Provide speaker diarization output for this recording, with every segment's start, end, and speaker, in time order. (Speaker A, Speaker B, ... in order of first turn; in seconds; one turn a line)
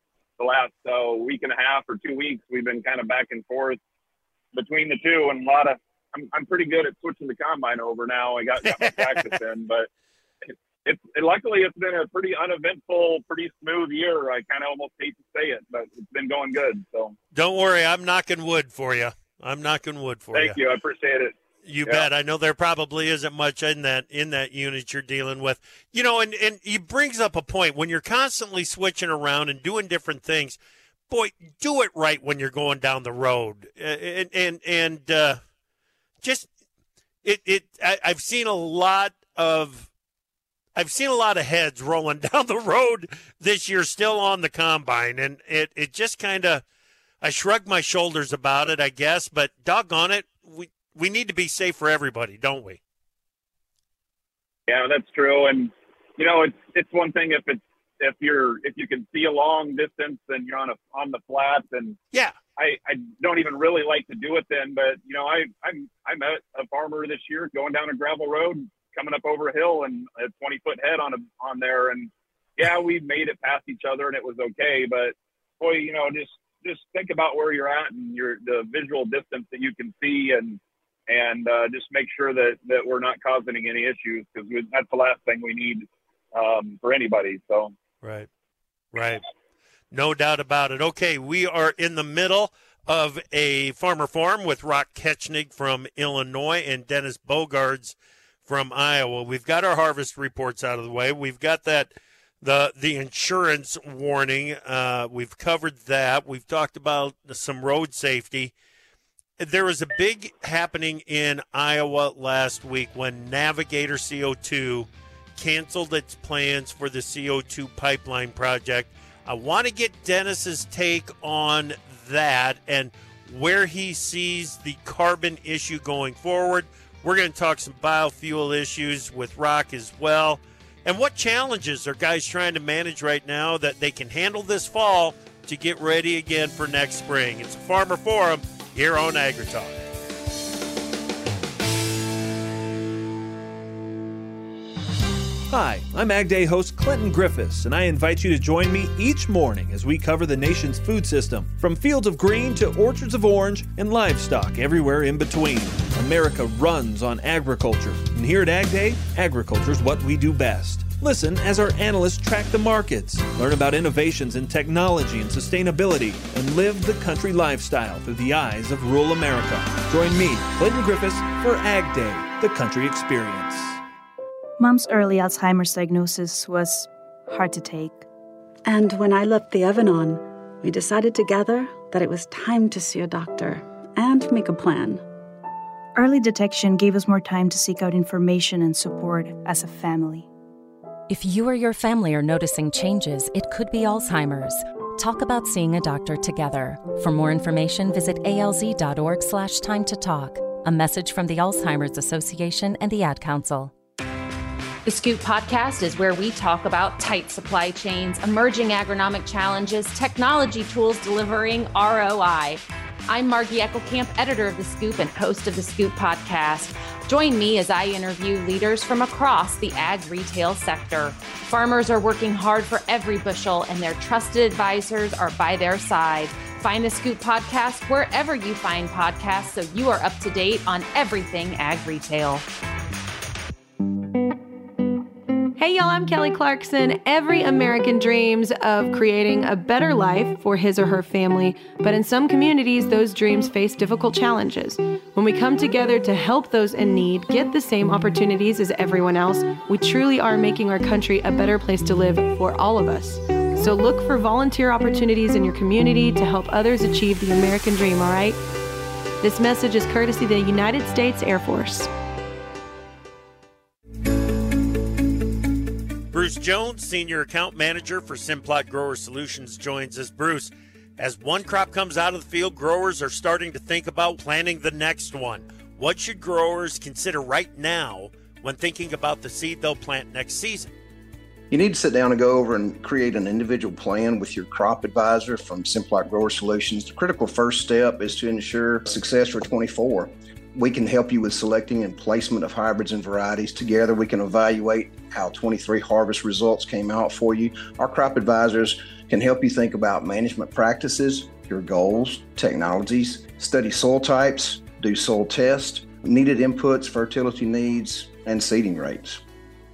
Speaker A: 0.4-3.8
Speaker A: 4.5-9.9
Speaker B: 8.6-9.3
Speaker A: 10.8-17.1
Speaker B: 17.3-20.6
Speaker A: 20.3-22.1
Speaker B: 21.6-35.4
Speaker B: 36.2-36.5
Speaker B: 37.2-39.9
Speaker B: 40.7-46.6
Speaker B: 47.2-52.8
Speaker A: 54.7-62.0
Speaker B: 62.1-62.4
Speaker A: 62.6-87.7
Speaker B: 88.0-88.3
Speaker B: 88.9-89.2
Speaker B: 89.9-108.5
Speaker B: 109.4-139.8
Speaker C: 145.5-173.8
Speaker D: 174.6-178.0
Speaker E: 178.6-185.0
Speaker D: 185.9-190.3
Speaker F: 191.1-203.7
Speaker G: 204.8-232.4
Speaker H: 235.6-258.4
Speaker H: 259.2-261.9
Speaker B: 266.1-280.7
Speaker I: 281.5-309.2